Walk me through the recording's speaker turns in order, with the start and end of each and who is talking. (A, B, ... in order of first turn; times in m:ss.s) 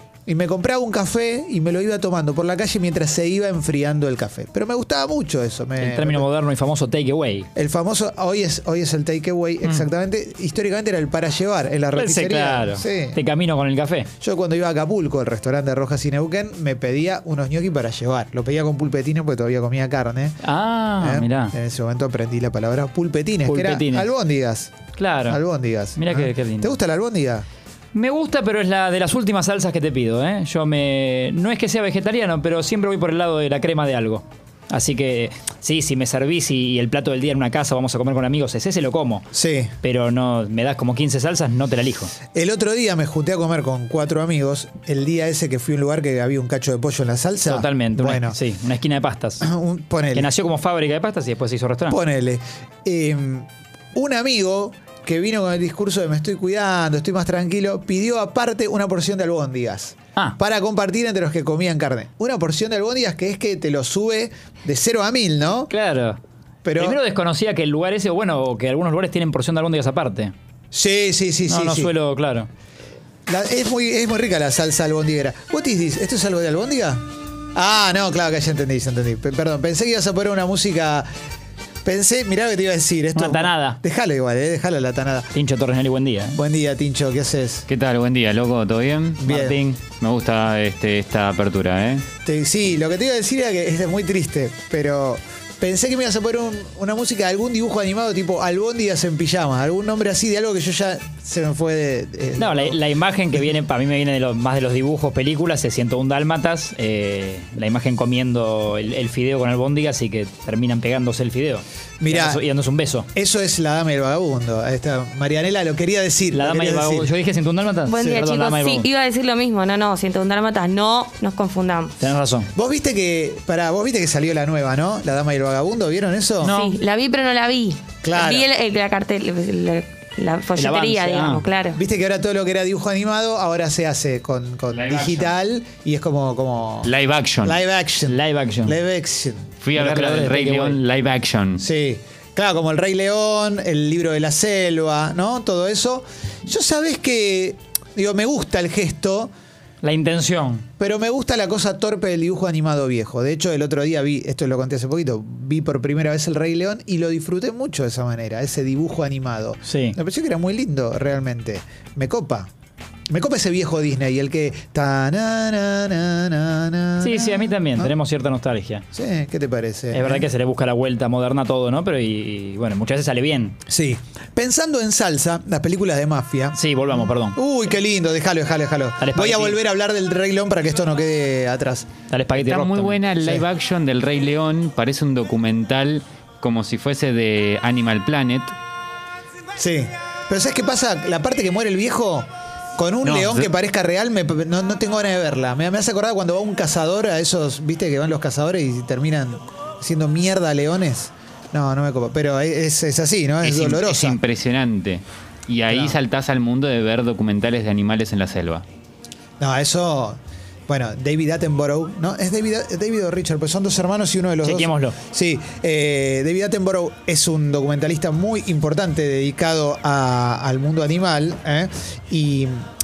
0:00.3-0:06.3 A
0:05.8-0:07.5 B
0:07.6-0:13.2 A
0:12.0-0:14.1 B
0:14.2-0:20.4 A
0:20.4-0:21.5 B
0:21.0-0:24.8 A
0:23.5-0:24.1 B
0:25.0-0:25.4 B
0:25.3-0:27.4 A
0:26.0-0:26.8 B
0:27.9-0:39.3 B
0:39.3-0:39.7 A
0:39.8-0:42.1 B
0:42.3-0:48.4 A
0:47.4-0:49.5 B
0:49.4-0:50.3 A
0:50.1-0:52.0 B
0:51.9-1:05.7 A
1:05.7-1:06.2 B
1:06.6-1:07.0 A
1:06.8-1:10.3 B
1:10.7-1:11.9 A
1:11.5-1:12.5 B
1:13.3-1:21.1 A
1:21.8-1:25.3 A
1:23.2-1:23.8 B
1:25.3-1:26.4 B
1:26.4-1:27.7 A
1:27.7-1:32.1 C
1:29.2-1:29.6 A
1:29.3-1:29.7 B
1:32.2-1:42.8 A
1:42.4-1:53.1 B
1:52.0-1:52.4 A
1:53.1-1:57.1 A
1:56.3-1:58.9 B
1:57.9-2:02.0 D
2:02.0-2:02.5 B
2:02.5-2:06.5 A
2:06.4-2:06.8 B
2:06.5-2:11.8 D
2:08.0-2:08.5 A
2:10.6-2:11.4 B
2:11.7-2:19.5 A
2:14.7-2:15.3 C
2:16.8-2:17.6 C
2:18.0-2:18.8 B
2:19.6-2:21.6 C
2:19.7-2:20.8 B
2:21.6-2:29.3 A
2:29.8-2:30.7 B
2:30.8-2:42.5 A
2:39.6-2:40.0 B
2:43.1-2:47.9 A
2:47.0-2:48.8 B
2:48.9-2:50.3 A
2:49.9-2:53.6 B
2:53.7-2:56.6 A
2:56.5-2:57.4 B
2:57.4-3:01.9 A
2:59.0-2:59.6 B
3:02.1-3:03.0 B
3:02.4-3:08.6 C
3:03.2-3:03.5 A
3:09.6-3:24.2 A
3:13.0-3:13.5 C
3:23.4-3:28.6 C
3:25.7-3:26.0 A
3:29.4-3:42.6 A
3:34.4-3:35.0 B